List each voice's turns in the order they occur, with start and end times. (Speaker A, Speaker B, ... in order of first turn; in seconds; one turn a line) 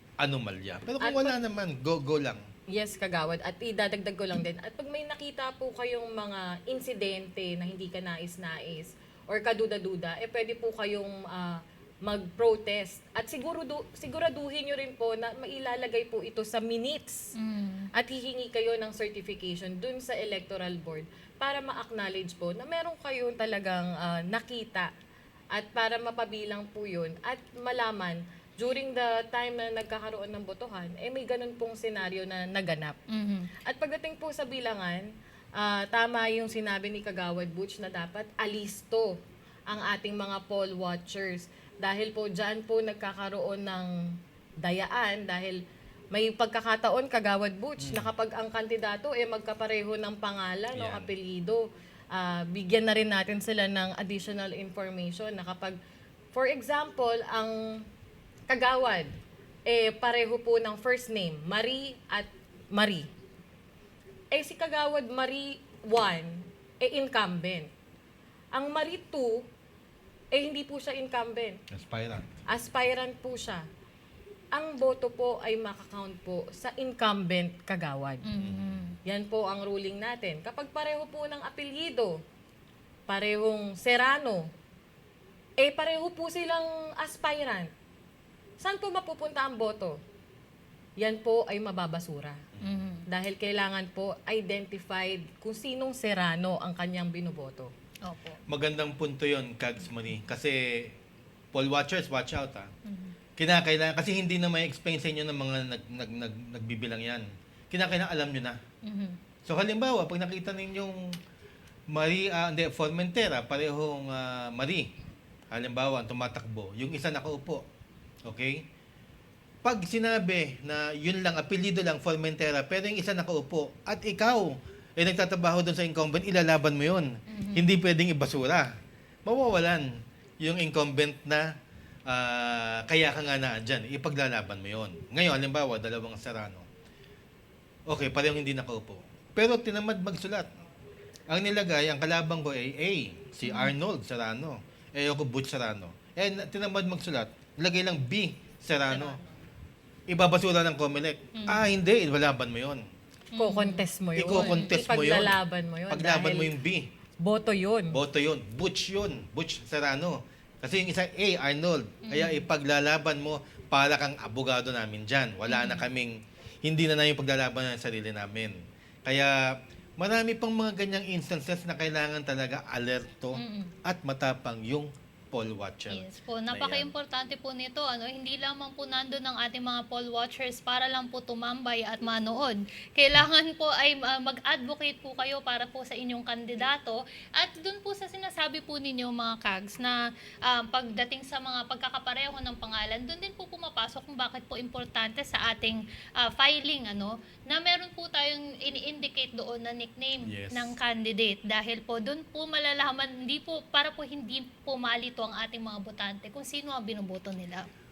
Speaker A: 0.2-2.4
Speaker B: 1.0-1.3
Speaker B: 2.7-17.3
Speaker C: 17.3-17.9
Speaker B: 17.9-24.9
Speaker B: 25.5-33.0
Speaker C: 33.1-33.5
Speaker B: 33.6-55.8
Speaker A: 47.8-48.1
Speaker A: 50.7-51.1
Speaker B: 56.3-57.8
Speaker B: 58.5-59.1
Speaker B: 59.7-63.1
Speaker B: 64.3-67.7
Speaker B: 68.5-69.5
Speaker B: 70.3-71.6
Speaker A: 71.7-72.3
Speaker B: 72.5-73.6
Speaker B: 74.5-78.2
Speaker C: 78.2-79.0
Speaker A: 78.4-78.8
Speaker B: 79.0-82.2
Speaker B: 83.1-84.5
Speaker B: 85.6-87.7
Speaker B: 88.6-90.0
Speaker B: 91.0-92.4
Speaker A: 92.5-92.9
Speaker C: 92.6-93.0
Speaker B: 93.1-97.7
Speaker C: 98.0-98.4
Speaker A: 98.5-101.0
Speaker A: 101.5-102.7
Speaker C: 102.8-103.1
Speaker A: 103.4-108.6
Speaker C: 108.8-109.2
Speaker A: 109.5-111.2
Speaker A: 111.9-114.9
Speaker A: 115.5-117.6
Speaker A: 118.2-118.7
Speaker A: 119.6-128.7
Speaker C: 127.3-127.7
Speaker A: 129.2-131.5
Speaker A: 132.1-136.7
Speaker A: 137.9-140.5
Speaker A: 141.3-149.2
Speaker C: 143.4-143.7
Speaker A: 150.1-152.8
Speaker C: 151.3-151.6
Speaker C: 153.3-154.7
Speaker B: 153.4-156.5
Speaker A: 154.2-155.4
Speaker A: 155.9-156.9
Speaker B: 157.2-158.0
Speaker A: 157.9-176.9
Speaker C: 162.0-162.4
Speaker C: 165.5-165.8
Speaker C: 173.3-173.7
Speaker C: 175.9-207.7
Speaker A: 200.2-200.7